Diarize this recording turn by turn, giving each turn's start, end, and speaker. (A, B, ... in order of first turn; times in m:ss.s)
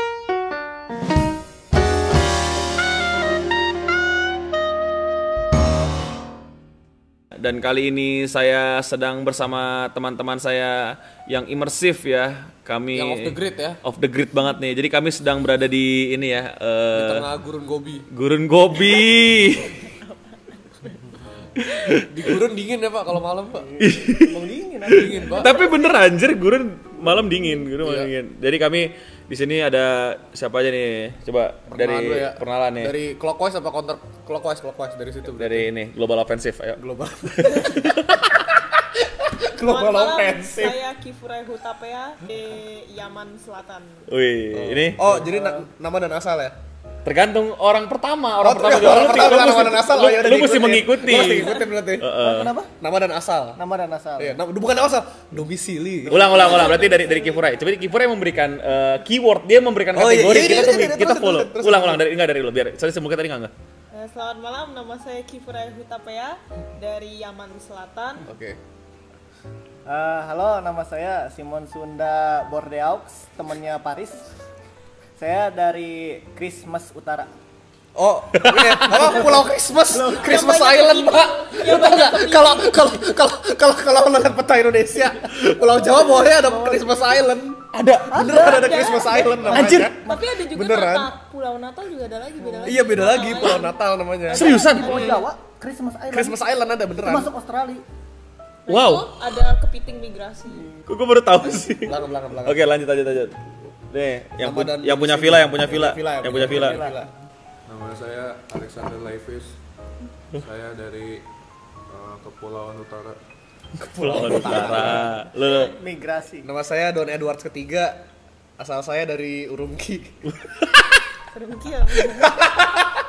0:07.4-0:17.3 A
0:12.9-0:13.8 B
0:16.9-0:18.1 B
0:18.1-0:19.8 A
0:21.6-0:22.1 A
0:22.1-0:23.7 B
0:23.7-0:25.4 C
0:23.8-0:24.4 A
0:24.9-0:25.5 B
0:25.4-0:33.0 A
0:25.5-0:25.9 D
0:27.8-0:28.1 B
0:31.7-0:35.7 B
0:35.4-0:36.8 A
0:36.8-0:40.8 B
0:37.4-0:38.2 A
0:39.6-0:44.1 D
0:44.1-0:45.2 A
0:44.5-0:46.6 B
0:47.0-0:52.5 A
0:48.4-0:52.1 B
0:52.1-0:52.7 C
0:52.8-0:53.6 B
0:53.6-0:54.4 C
0:54.2-0:56.7 B
0:56.1-1:03.5 A
0:56.3-0:57.4 D
0:59.9-1:02.0 B
1:03.9-1:08.3 D
1:08.3-1:08.6 B
1:09.9-1:14.3 C
1:15.2-1:17.3 C
1:18.0-1:31.1 B
1:18.3-1:19.2 A
1:20.0-1:20.3 C
1:20.0-1:22.9 D
1:26.2-1:27.1 C
1:27.7-1:28.5 A
1:28.1-1:30.2 C
1:28.3-1:33.8 D
1:29.5-1:29.9 A
1:32.4-1:32.8 C
1:32.6-1:35.2 B
1:34.3-1:35.2 D
1:34.3-1:35.0 A
1:34.4-1:36.4 C
1:36.1-1:37.3 B
1:37.0-1:37.8 C
1:38.7-1:40.7 D
1:38.7-1:39.2 A
1:40.9-1:43.4 A
1:41.8-1:42.6 B
1:43.9-1:46.8 A
1:44.4-1:47.1 B
1:46.3-1:47.1 C
1:47.7-1:49.6 E
1:50.4-1:51.2 E
1:51.9-1:53.2 E
1:53.8-1:55.7 A
1:54.0-1:55.1 B
1:54.3-1:56.5 C
1:56.4-1:58.0 B
1:58.6-2:00.2 B
2:01.3-2:02.3 D
2:02.1-2:02.9 B